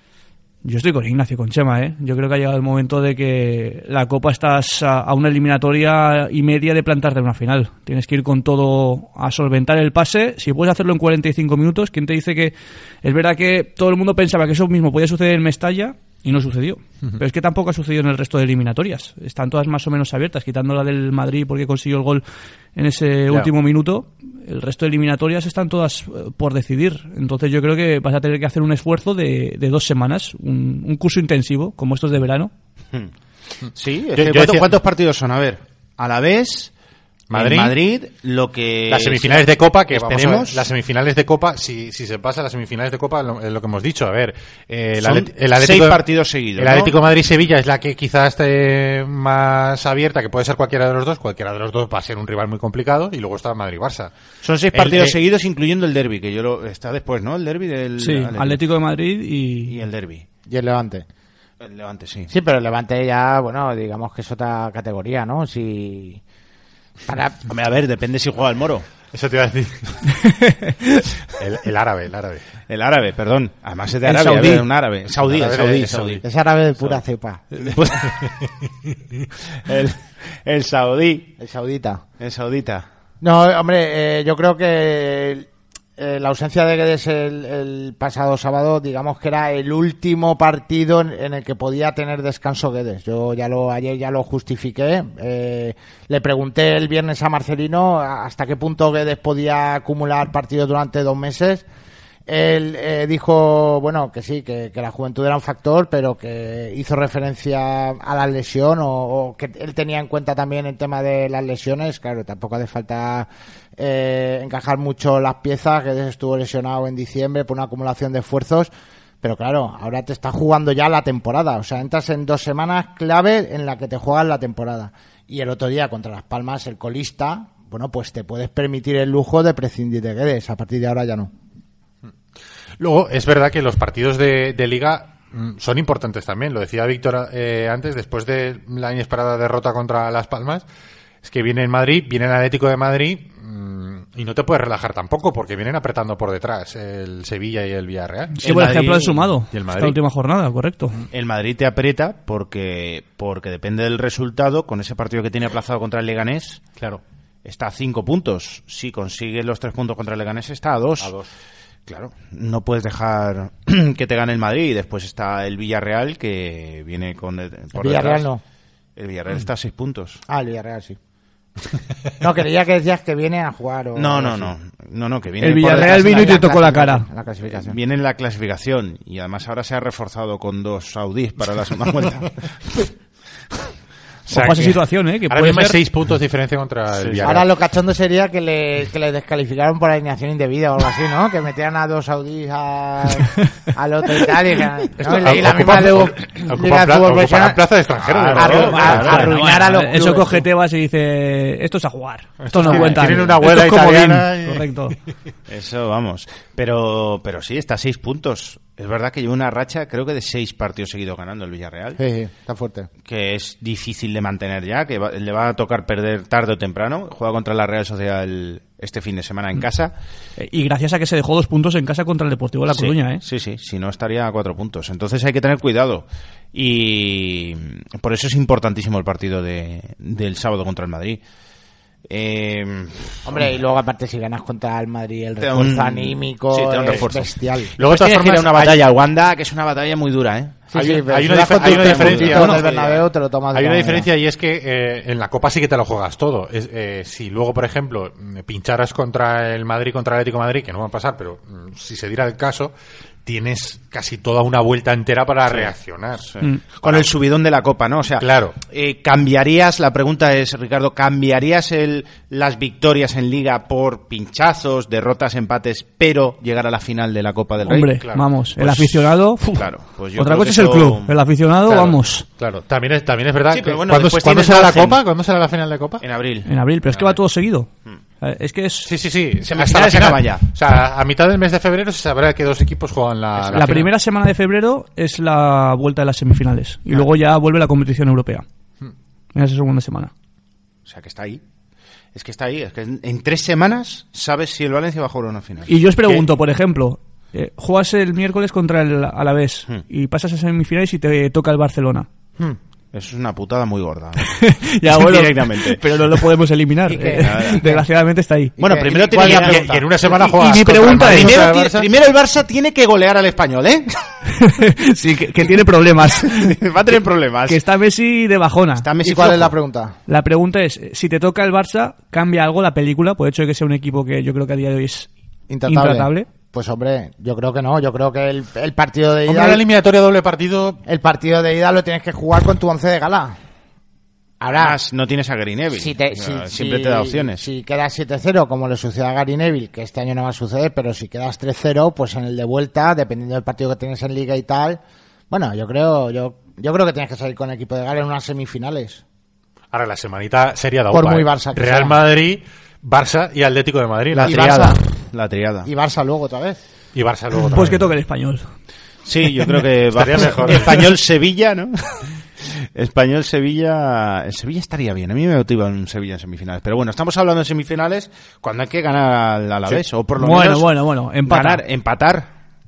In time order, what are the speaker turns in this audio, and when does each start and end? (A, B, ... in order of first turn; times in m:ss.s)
0:00.6-0:22.2 A
0:22.8-0:32.5 A
0:33.7-0:36.7 B
0:34.2-0:34.7 C
0:37.3-0:37.8 C
0:37.3-0:40.7 B
0:38.9-0:46.0 C
0:45.0-0:47.0 B
0:46.6-0:54.1 C
0:54.4-0:58.6 B
0:54.7-0:55.2 C
0:58.0-0:59.8 A
0:59.7-1:00.3 B
1:00.5-1:01.1 D
1:01.6-1:02.3 B
1:02.3-1:06.2 D
1:07.1-1:07.4 D
1:07.5-1:08.9 B
1:09.1-1:10.2 C
1:10.4-1:10.7 A
1:11.4-1:12.4 C
1:12.7-1:16.2 B
1:14.0-1:14.6 A
1:15.2-1:16.2 C
1:16.2-1:17.4 D
1:17.6-1:18.2 B
1:18.0-1:18.5 C
1:19.6-1:21.3 B
1:21.4-1:22.0 D
1:22.2-1:22.9 B
1:23.2-1:41.6 D
1:42.3-1:58.7 D
1:59.2-2:11.3 D
2:12.8-2:20.7 C
2:21.2-2:28.4 C
2:28.4-2:31.0 A
2:28.4-2:29.3 B
2:29.5-2:30.0 C
2:31.1-2:36.6 B
2:37.4-2:41.1 B
2:41.0-2:41.3 C
2:41.9-2:48.3 B
2:47.7-2:48.4 D
2:49.0-2:50.2 B
2:50.3-2:51.0 D
2:52.2-2:54.5 D
2:54.0-2:56.4 B
2:55.4-2:57.1 A
2:55.6-2:57.8 D
2:57.5-3:02.8 B
3:04.3-3:05.8 A
3:04.3-3:07.5 C
3:06.9-3:07.3 B
3:07.2-3:17.7 D
3:15.0-3:19.3 C
3:18.0-3:19.3 B
3:18.3-3:20.4 D
3:18.9-3:25.0 A
3:22.4-3:24.7 C
3:22.6-3:23.4 D
3:25.5-3:32.0 B
3:32.0-3:32.9 D
3:33.0-3:39.9 B
3:40.4-3:43.2 A
3:42.7-3:51.2 B
3:52.1-3:53.5 B
3:53.2-3:57.8 D
3:55.4-4:00.6 B
3:57.8-3:58.8 C
4:00.7-4:04.1 D
4:00.7-4:02.6 C
4:01.5-4:03.0 B
4:03.5-4:12.7 C
4:13.2-4:17.1 C
4:15.5-4:15.7 B
4:16.3-4:28.0 B
4:18.2-4:18.6 C
4:27.6-4:32.3 A
4:27.9-4:28.3 C
4:28.6-4:31.1 B
4:32.4-4:36.0 C
4:33.5-4:35.0 B
4:36.0-4:37.1 B
4:36.4-4:37.7 A
4:38.2-4:38.9 A
4:38.8-4:43.9 C
4:39.4-4:40.4 B
4:43.4-4:43.7 B
4:43.5-4:48.4 A
4:49.3-4:50.1 A
4:50.9-4:51.4 B
4:52.2-4:56.2 B
4:55.7-5:02.1 A
5:02.9-5:04.3 B
5:04.2-5:08.6 A
5:04.8-5:05.8 B
5:06.9-5:07.8 D
5:07.2-5:07.7 B
5:08.6-5:09.8 D
5:08.6-5:14.0 B
5:09.1-5:11.9 C
5:10.4-5:11.5 A
5:14.3-5:16.6 A
5:16.2-5:17.6 B
5:17.5-5:18.9 A
5:18.8-5:19.6 B
5:19.0-5:20.0 D
5:20.1-5:25.1 A
5:25.5-5:29.6 D
5:25.7-5:26.3 A
5:29.3-5:30.8 C
5:30.9-5:33.4 D
5:34.4-5:34.8 D
5:34.5-5:37.5 B
5:35.7-5:49.0 D
5:49.7-5:54.7 C
5:50.9-5:52.0 D
5:54.1-5:55.7 B
5:54.2-5:54.8 D
5:55.6-5:56.6 D
5:57.0-5:57.9 C
5:57.5-5:58.5 A
5:59.1-6:10.7 B
5:59.9-6:00.9 C
6:10.2-6:11.6 A
6:11.2-6:12.3 B